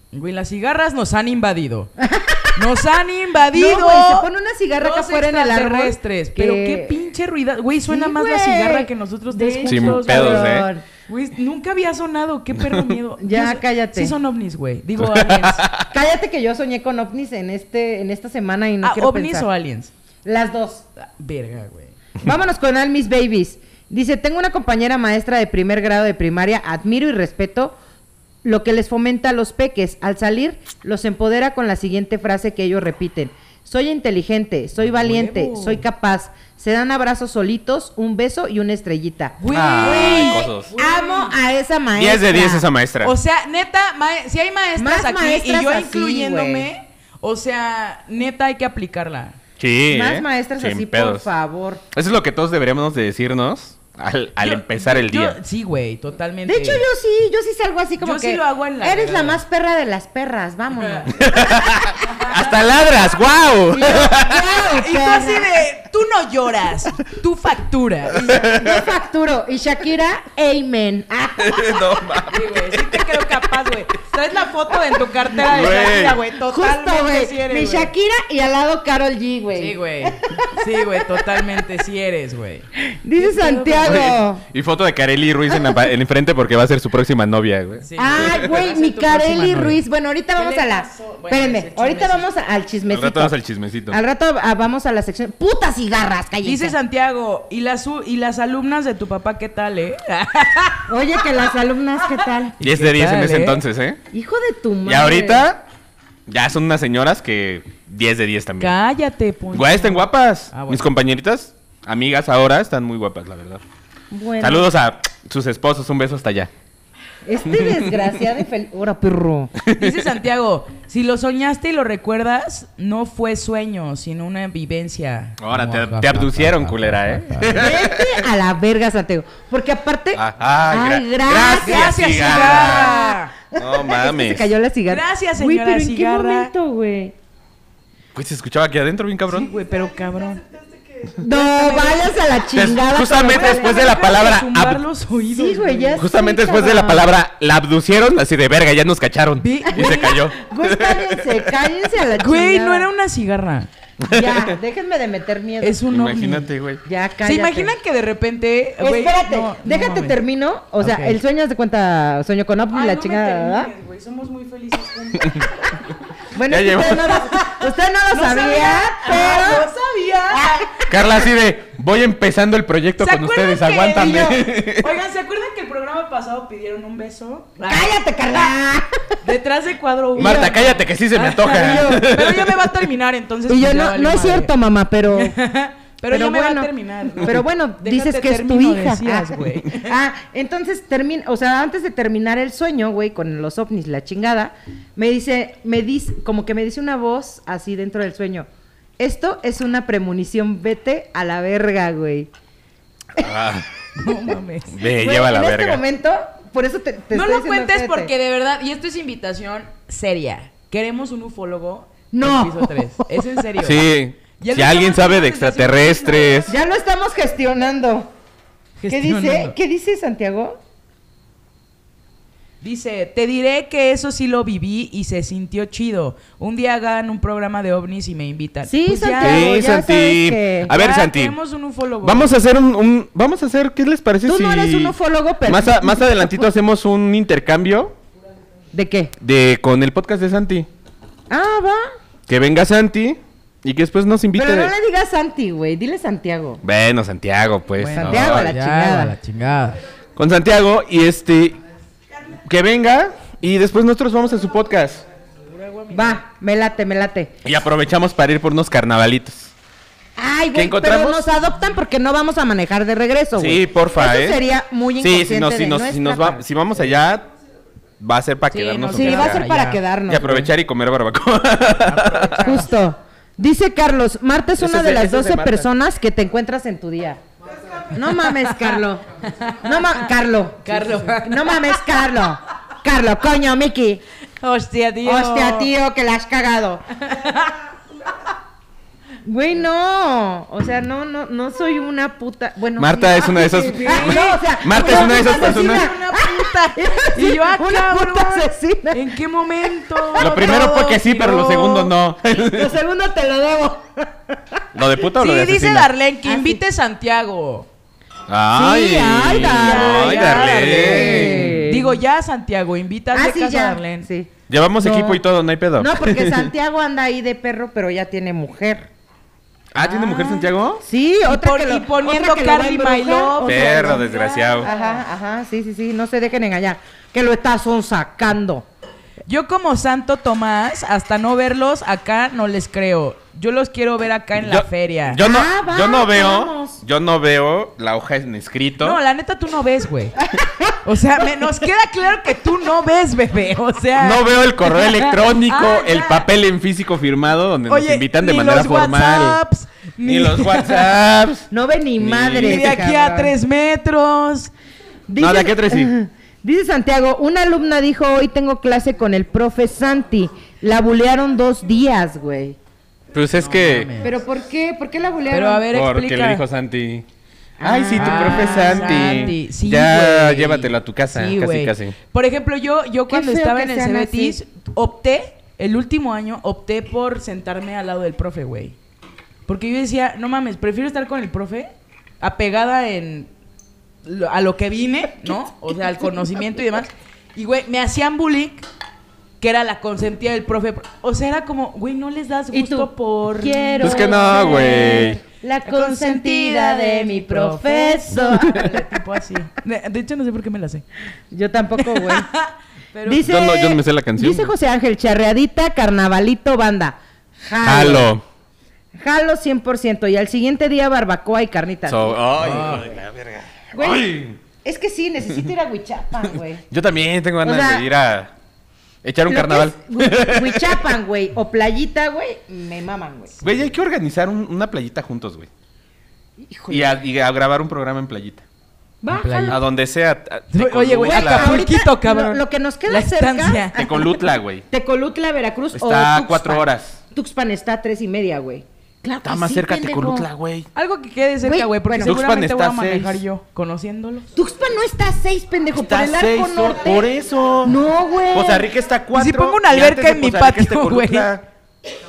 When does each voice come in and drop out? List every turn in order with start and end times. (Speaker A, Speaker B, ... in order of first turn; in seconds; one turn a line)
Speaker A: 0.1-1.9
Speaker B: 2.0-2.7
Speaker A: 2.5-15.6
Speaker B: 3.5-7.0
Speaker B: 7.9-10.8
Speaker C: 9.7-10.7
Speaker C: 12.6-13.0
Speaker B: 13.2-14.1
Speaker C: 15.0-15.9
Speaker B: 15.9-19.5
Speaker A: 18.8-19.9
Speaker B: 20.2-20.8
Speaker A: 21.0-21.9
Speaker B: 22.2-27.8
Speaker B: 28.4-42.7
Speaker A: 34.8-35.8
Speaker A: 39.4-41.4
Speaker C: 39.5-40.7
Speaker C: 42.0-43.1
Speaker A: 43.0-49.4
Speaker B: 44.8-46.7
Speaker C: 49.6-51.3
Speaker B: 49.9-51.8
Speaker C: 51.9-55.4
Speaker A: 54.4-56.8
Speaker B: 56.5-61.3
Speaker A: 58.0-59.4
Speaker A: 60.8-61.1
Speaker C: 61.1-64.4
Speaker A: 62.1-62.3
Speaker B: 63.7-65.6
Speaker A: 64.3-68.3
Speaker C: 68.1-68.9
Speaker B: 68.1-71.6
Speaker C: 71.4-73.4
Speaker A: 72.3-77.9
Speaker C: 75.4-76.2
Speaker B: 76.3-81.1
Speaker A: 79.5-84.1
Speaker B: 82.8-84.4
Speaker C: 83.8-88.4
Speaker A: 87.8-89.8
Speaker B: 88.0-93.3
Speaker A: 90.4-92.3
Speaker C: 92.9-94.0
Speaker B: 93.9-96.8
Speaker A: 96.4-101.2
Speaker B: 100.9-102.6
Speaker A: 102.0-103.6
Speaker C: 102.6-104.0
Speaker B: 104.1-105.5
Speaker C: 104.8-105.6
Speaker C: 106.3-108.7
Speaker A: 108.6-110.9
Speaker C: 109.5-113.6
Speaker B: 114.1-114.7
Speaker C: 114.4-116.5
Speaker B: 117.2-119.5
Speaker C: 117.4-118.1
Speaker C: 119.6-120.1
Speaker A: 119.7-127.7
Speaker C: 125.4-128.3
Speaker B: 127.5-137.1
Speaker C: 130.2-133.0
Speaker A: 131.6-133.3
Speaker C: 133.6-134.5
Speaker A: 134.9-136.5
Speaker C: 138.1-139.5
Speaker A: 139.3-142.2
Speaker B: 141.2-143.8
Speaker C: 142.5-144.8
Speaker A: 143.3-146.0
Speaker B: 145.3-147.1
Speaker C: 146.0-151.5
Speaker A: 149.4-150.2
Speaker B: 149.7-152.9
Speaker A: 152.2-153.7
Speaker C: 154.0-154.6
Speaker B: 154.1-155.8
Speaker A: 155.6-156.5
Speaker C: 155.9-156.8
Speaker B: 156.8-157.7
Speaker A: 157.2-160.2
Speaker B: 158.8-163.7
Speaker A: 160.8-161.2
Speaker A: 162.7-165.5
Speaker B: 166.3-169.7
Speaker C: 166.5-167.3
Speaker A: 167.3-167.6
Speaker A: 168.1-170.7
Speaker B: 170.3-171.0
Speaker C: 170.9-174.9
Speaker A: 173.0-177.9
Speaker B: 177.7-179.0
Speaker A: 179.2-184.5
Speaker B: 180.2-180.7
Speaker C: 180.2-182.6
Speaker B: 181.4-182.2
Speaker B: 183.5-185.4
Speaker A: 185.1-189.9
Speaker B: 186.1-198.5
Speaker B: 199.0-202.3
Speaker C: 203.2-203.7
Speaker A: 203.9-204.8
Speaker C: 204.7-205.8
Speaker B: 204.8-208.1
Speaker A: 207.1-216.5
Speaker B: 212.1-213.4
Speaker C: 213.6-216.5
Speaker B: 216.5-218.1
Speaker A: 218.8-219.6
Speaker B: 218.9-220.6
Speaker A: 222.6-229.5
Speaker B: 228.7-230.7
Speaker C: 229.2-231.4
Speaker A: 230.7-232.3
Speaker C: 232.0-234.9
Speaker B: 234.3-236.5
Speaker C: 235.5-237.9
Speaker B: 238.7-239.1
Speaker C: 239.2-240.7
Speaker B: 241.3-241.9
Speaker C: 242.3-244.7
Speaker B: 244.3-246.6
Speaker C: 246.6-248.5
Speaker A: 247.8-249.8
Speaker B: 247.9-249.2
Speaker C: 250.2-251.6
Speaker C: 252.4-255.1
Speaker A: 255.5-256.2
Speaker B: 255.9-257.3
Speaker C: 257.4-259.5
Speaker B: 260.2-266.4
Speaker C: 260.5-261.3
Speaker C: 263.4-264.4
Speaker C: 265.0-267.3
Speaker C: 268.0-269.4
Speaker A: 268.5-269.8
Speaker B: 268.9-270.5
Speaker C: 270.1-272.5
Speaker A: 271.8-272.7
Speaker B: 272.4-277.2
Speaker C: 274.6-275.7
Speaker B: 277.9-279.0
Speaker A: 278.3-278.8
Speaker A: 279.3-279.9
Speaker B: 279.6-284.0
Speaker A: 280.6-282.0
Speaker A: 284.4-285.7
Speaker B: 285.1-286.9
Speaker A: 287.0-287.6
Speaker B: 289.2-299.1
Speaker C: 292.8-295.9
Speaker A: 293.4-301.6
Speaker B: 299.8-304.1
Speaker C: 300.2-302.8
Speaker C: 304.7-305.9
Speaker A: 305.2-307.7
Speaker B: 306.2-306.6
Speaker C: 308.3-311.6
Speaker B: 308.5-312.0
Speaker A: 309.4-314.1
Speaker B: 313.1-315.2
Speaker C: 314.5-316.5
Speaker B: 315.8-318.9
Speaker C: 319.7-320.8
Speaker A: 319.8-320.4
Speaker B: 320.8-324.1
Speaker A: 321.2-325.0
Speaker C: 323.4-324.7
Speaker B: 324.6-328.6
Speaker A: 329.3-335.2
Speaker C: 334.4-339.0
Speaker B: 335.2-336.8
Speaker A: 338.8-340.2
Speaker B: 340.3-340.8
Speaker A: 340.8-346.3
Speaker C: 344.0-349.4
Speaker A: 347.7-350.9
Speaker C: 350.1-351.5
Speaker B: 351.5-353.4
Speaker C: 352.0-352.8
Speaker A: 352.4-354.5
Speaker B: 355.1-362.6
Speaker C: 355.2-355.9
Speaker C: 363.1-363.9
Speaker A: 363.4-364.2
Speaker B: 364.0-365.7
Speaker A: 365.3-366.4
Speaker C: 365.7-367.1
Speaker B: 367.6-369.4
Speaker C: 367.6-372.0
Speaker A: 368.0-378.8
Speaker B: 373.1-374.4
Speaker A: 379.5-383.3
Speaker A: 384.0-388.6
Speaker A: 389.4-394.9
Speaker B: 392.5-399.0
Speaker C: 393.8-395.2
Speaker A: 395.7-400.9
Speaker B: 401.3-402.3
Speaker A: 401.8-403.2
Speaker B: 403.1-408.1
Speaker C: 403.2-404.5
Speaker C: 407.6-408.2
Speaker B: 409.0-412.9
Speaker C: 411.9-414.4
Speaker A: 412.4-412.9
Speaker B: 413.7-416.6
Speaker C: 416.7-418.3
Speaker B: 417.4-417.9
Speaker C: 419.0-420.9
Speaker B: 419.3-423.4
Speaker C: 423.4-425.5
Speaker B: 426.4-426.9
Speaker C: 426.7-428.4
Speaker B: 429.0-429.6
Speaker A: 429.1-429.6
Speaker C: 429.5-431.6
Speaker A: 430.5-433.8
Speaker B: 431.0-440.3
Speaker C: 433.8-434.6
Speaker C: 435.7-437.0
Speaker C: 439.2-440.7
Speaker A: 440.8-444.3
Speaker B: 441.4-442.2
Speaker C: 442.1-443.2
Speaker B: 444.4-447.1
Speaker C: 445.7-447.8
Speaker B: 447.6-448.7
Speaker C: 448.3-451.4
Speaker A: 449.1-451.3